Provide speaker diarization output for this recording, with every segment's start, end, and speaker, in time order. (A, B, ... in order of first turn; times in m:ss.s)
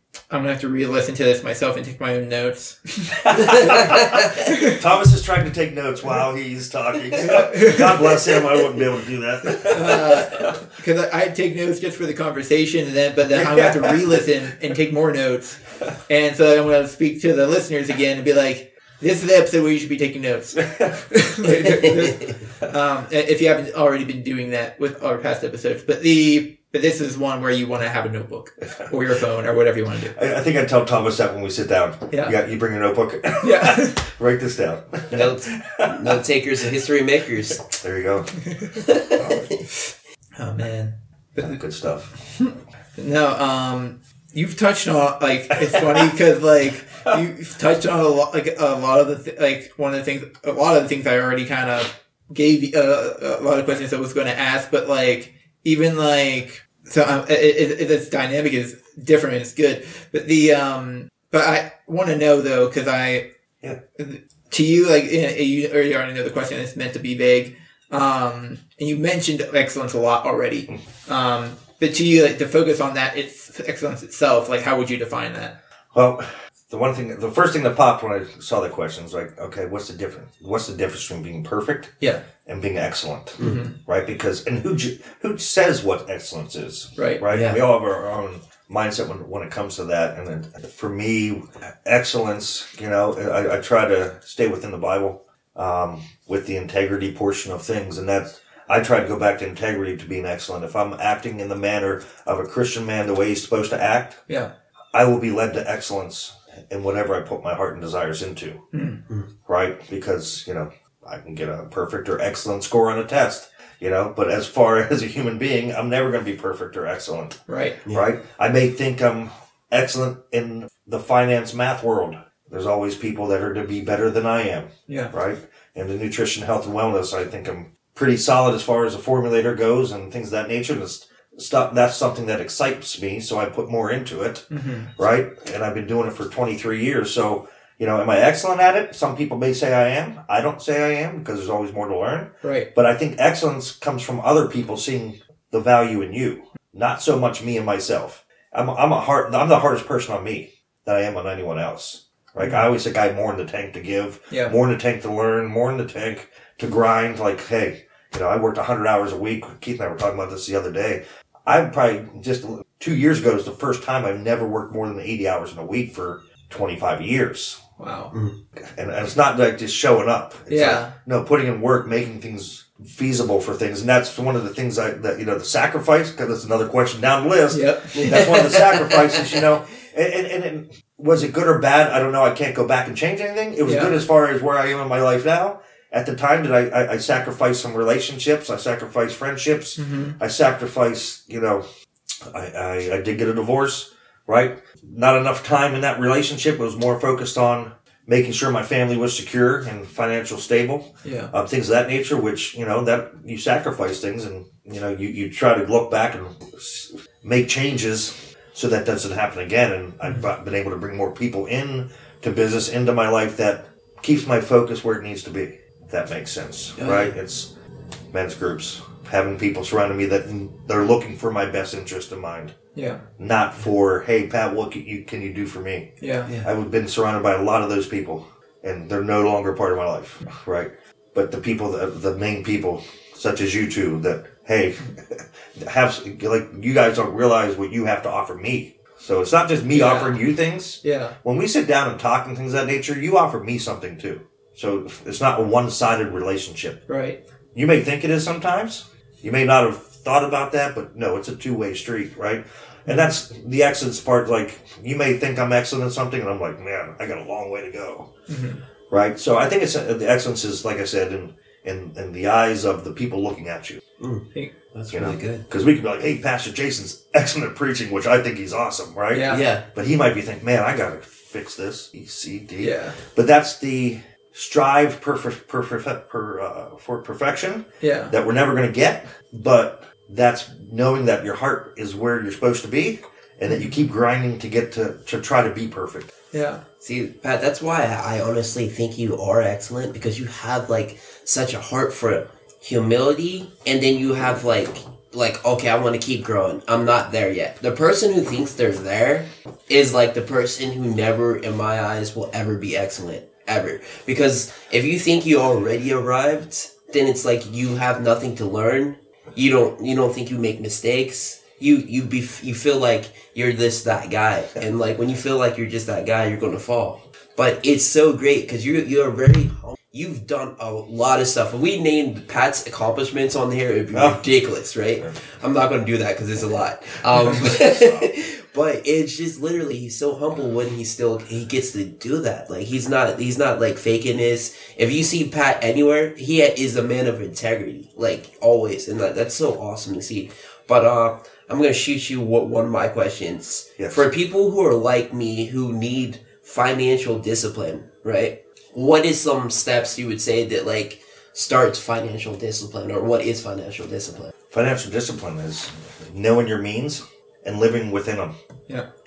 0:00.3-0:04.8 A
0:03.3-0:10.6 B
0:07.2-0:08.0 A
0:09.7-0:30.1 A
0:13.3-0:14.2 B
0:20.6-0:21.0 B
0:30.1-0:36.2 B
0:32.1-0:32.4 A
0:33.4-0:34.0 A
0:35.1-0:37.7 C
0:37.7-0:38.4 B
0:38.4-0:39.4 A
0:38.8-0:39.6 C
0:40.4-0:41.6 A
0:41.4-0:42.1 B
0:42.4-1:03.2 A
0:45.7-0:46.1 B
1:04.0-1:15.6 A
1:15.9-1:44.2 B
1:23.4-1:23.8 A
1:27.0-1:27.2 A
1:27.3-1:27.6 C
1:44.9-1:48.6 B
1:48.7-1:49.0 A
1:49.5-1:57.4 B
1:57.5-1:57.8 A
1:57.9-2:47.6 B
2:04.9-2:05.1 A
2:14.5-2:14.9 A
2:22.4-2:22.7 A
2:32.4-2:32.7 A
2:34.3-2:34.6 A
2:47.8-2:48.1 A
2:48.6-3:11.6 B
2:50.5-2:50.9 A
2:57.5-2:58.3 A
2:58.0-2:59.2 C
3:03.6-3:04.0 A
3:09.8-3:10.2 A
3:12.2-3:37.5 B
3:21.0-3:21.3 A
3:36.8-3:37.1 C
3:38.1-3:42.5 B
3:42.8-3:43.0 A
3:43.2-4:06.8 B
3:46.0-3:46.3 A
3:59.7-4:00.2 A
4:00.8-4:01.2 A
4:06.9-4:07.2 A
4:07.5-4:18.1 B
4:18.3-4:18.6 A
4:18.9-4:23.8 B
4:24.0-4:25.4 C
4:24.9-4:46.1 B
4:29.1-4:29.4 A
4:29.3-4:29.7 C
4:32.6-4:33.0 A
4:37.8-4:38.2 A
4:43.5-4:43.8 A
4:46.3-4:46.6 A
4:46.8-5:54.3 C
5:23.9-5:24.2 B
5:27.2-5:28.2 B
5:43.8-5:44.1 B
5:54.5-5:58.3 B